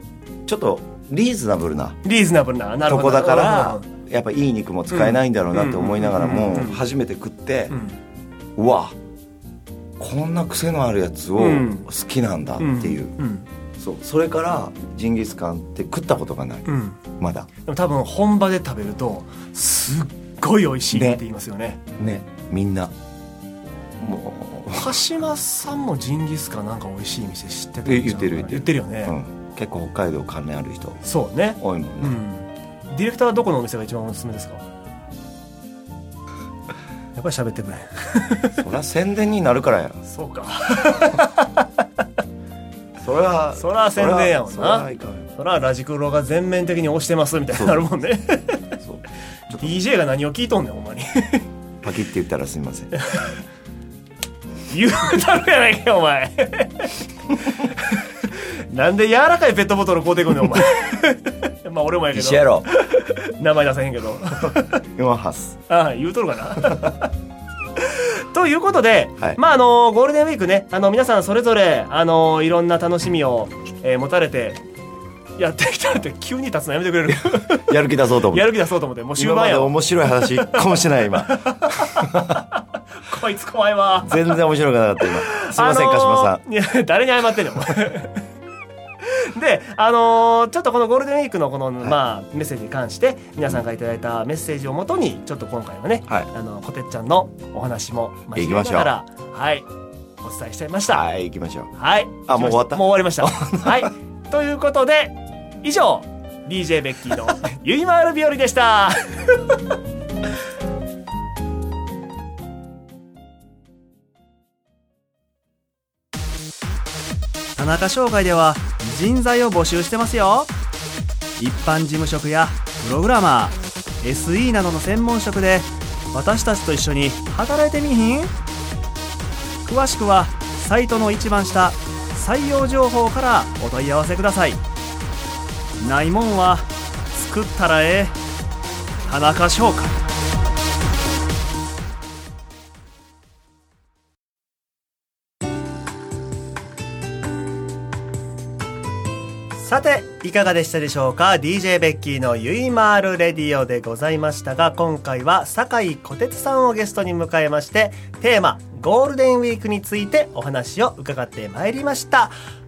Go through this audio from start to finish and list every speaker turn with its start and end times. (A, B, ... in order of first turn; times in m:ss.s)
0:00.4-0:02.0 A
0:02.0-0:03.9 B
0:02.8-0:07.7 A
0:04.9-0:06.8 B
0:07.7-0:08.0 B
0:08.6-0:08.9 A
0:10.0-0:13.1 A
0:11.4-0:11.9 B
0:12.6-0:13.4 B
0:13.8-0:17.5 A
0:16.6-0:17.0 B
0:17.6-0:21.8 B
0:20.9-0:21.2 A
0:22.0-0:22.9 A
0:24.0-0:25.0 A
0:24.7-0:29.1 B
0:27.8-0:31.0 A
0:31.0-0:34.6 B
0:31.6-0:32.2 A
0:37.1-0:38.6 B
0:38.6-0:40.0 A
0:40.0-0:41.8 B
0:43.0-0:45.3 A
0:43.5-0:48.6 B
0:48.8-0:49.7 A
0:49.5-0:51.5 B
0:51.8-0:52.9 A
0:52.9-0:53.4 B
0:54.7-1:04.8 B
1:02.1-1:02.7 A
1:04.9-1:05.6 A
1:05.7-1:07.1 B
1:07.8-1:14.6 B
1:15.4-1:20.6 B
1:17.1-1:18.6 A
1:19.2-1:22.4 A
1:21.2-1:24.3 B
1:24.0-1:26.4 A
1:25.0-1:28.2 B
1:29.0-1:39.6 B
1:38.3-1:38.9 A
1:40.2-1:41.0 B
1:40.9-1:41.7 A
1:41.7-1:49.5 B
1:42.3-1:43.9 A
1:57.6-2:00.5 B
2:01.4-2:08.3 B
2:09.6-2:14.6 B
2:15.8-2:18.1 B
2:19.1-2:20.0 B
2:29.6-2:42.3 B